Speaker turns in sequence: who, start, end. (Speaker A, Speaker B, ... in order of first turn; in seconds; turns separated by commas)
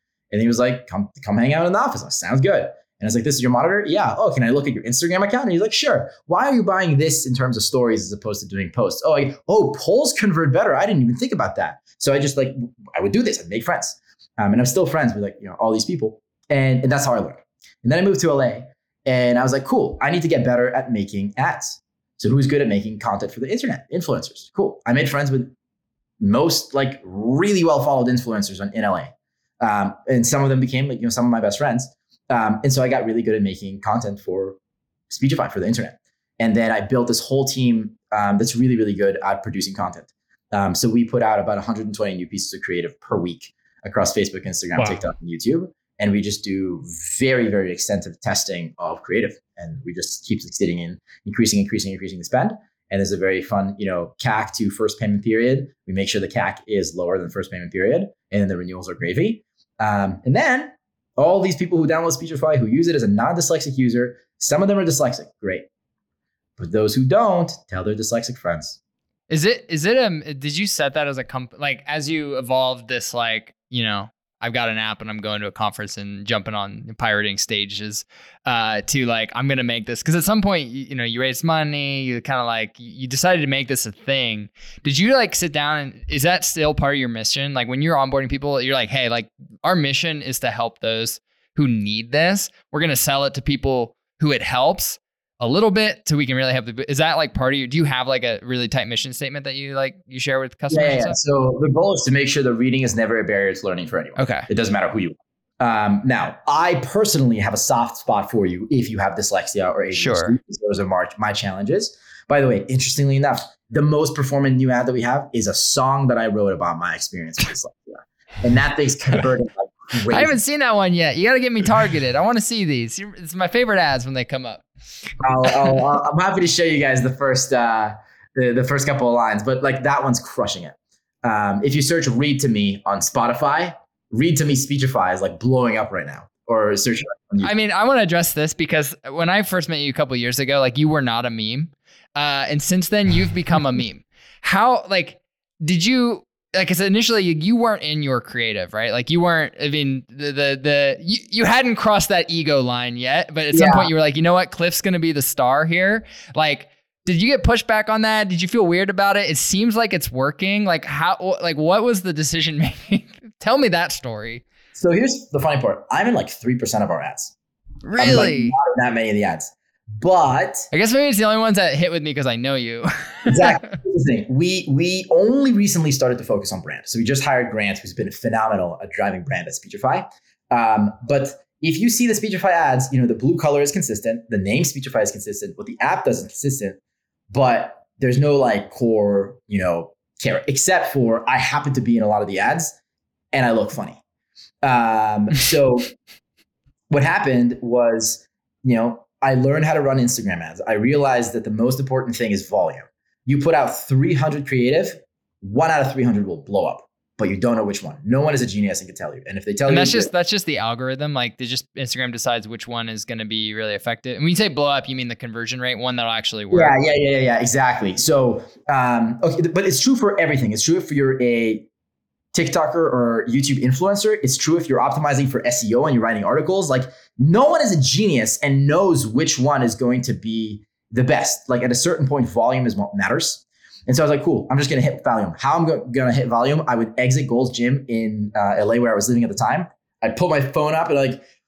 Speaker A: 0.3-25.5, Speaker A: 26.2-34.6, Speaker A: 35.1-65.7, Speaker A: 66.6-68.8, Speaker B: 69.3-101.2, Speaker A: 100.7-120.3, Speaker B: 104.2-104.5, Speaker B: 109.9-110.3, Speaker B: 120.1-124.6, Speaker A: 125.2-137.5, Speaker B: 137.4-164.4, Speaker A: 153.5-153.9, Speaker A: 164.7-167.3, Speaker B: 167.8-168.5, Speaker A: 168.0-170.7, Speaker B: 170.7-173.7, Speaker A: 173.2-186.8, Speaker A: 187.3-192.8, Speaker A: 193.3-194.0, Speaker A: 194.6-195.9, Speaker A: 196.9-210.1, Speaker B: 209.7-216.7, Speaker A: 216.5-221.7, Speaker A: 222.3-241.2